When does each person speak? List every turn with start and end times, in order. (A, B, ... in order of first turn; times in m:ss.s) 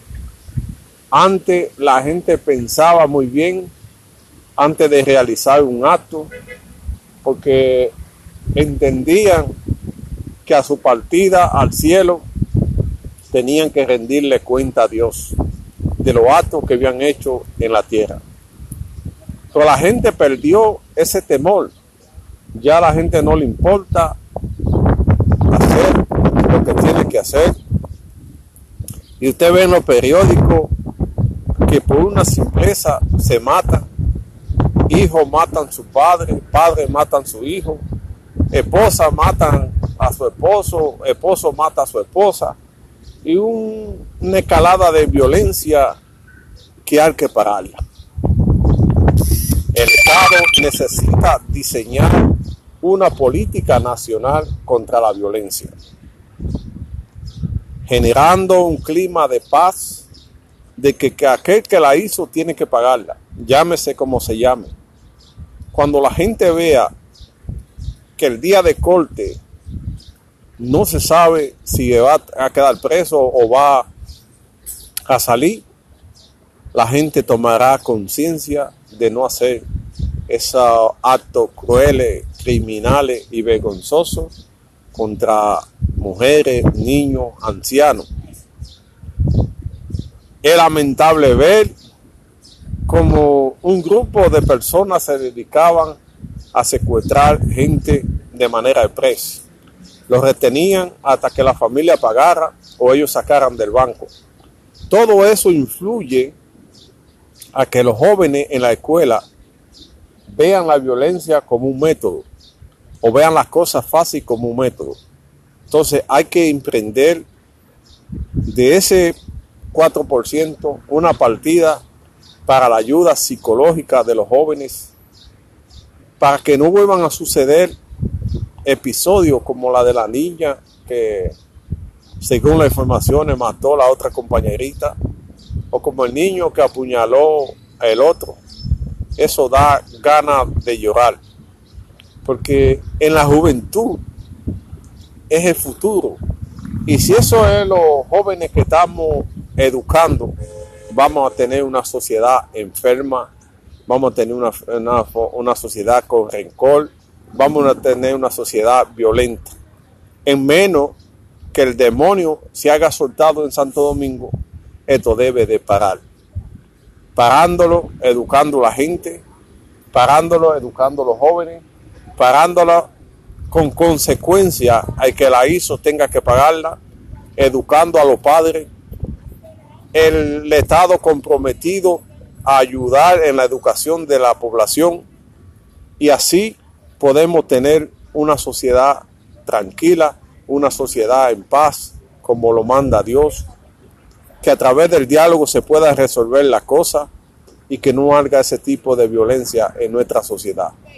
0:01.1-0:03.7 A
0:04.6-0:06.3 A
0:07.2-0:07.9 A
0:08.6-0:09.5 A
0:10.4-0:12.2 A
0:13.3-0:15.4 A
0:16.0-0:18.2 A
0:19.5-0:21.8 A
0:22.6-0:24.2 A
0:25.5-0:27.5 A
0:29.2-0:30.7 A
0:31.6-0:33.9 A
0:34.9-0:37.8 A
0:38.5-0:42.6 A
0:43.2-0:46.0 A
0:46.8-0:47.8 A
0:49.7-0:55.7 A
0:57.9-1:00.1 A
1:00.8-1:04.7 A
1:05.7-1:06.9 A
1:08.2-1:09.4 A
1:10.6-1:13.9 A
1:15.1-1:15.6 A
1:16.7-1:19.6 A
1:20.3-1:24.3 A
1:24.9-1:28.1 A
1:30.4-1:31.8 A
1:32.9-1:36.0 A
1:36.5-1:39.4 A
1:40.1-1:44.1 A
1:44.9-1:46.4 A
1:47.5-1:49.2 A
1:50.3-1:52.3 A
1:53.0-1:55.0 A
1:55.7-1:57.3 A
1:58.4-1:59.2 A
1:59.7-2:01.8 A
2:02.5-2:04.9 A
2:06.2-2:07.8 A
2:08.6-2:11.4 A
2:12.2-2:15.0 A
2:15.7-2:18.4 A
2:19.2-2:21.2 A
2:22.2-2:24.0 A
2:25.3-2:26.2 A
2:26.9-2:30.3 A
2:30.9-2:33.3 A
2:33.9-2:39.5 A
2:40.3-2:41.0 A
2:41.5-2:44.3 A
2:44.9-2:46.0 A
2:47.2-2:49.2 A
2:49.9-2:51.6 A
2:52.2-2:52.9 A
2:53.5-2:56.8 A
2:57.4-2:58.7 A
2:59.9-3:05.1 A
3:06.0-3:13.4 A
3:14.4-3:17.1 A
3:17.7-3:20.7 A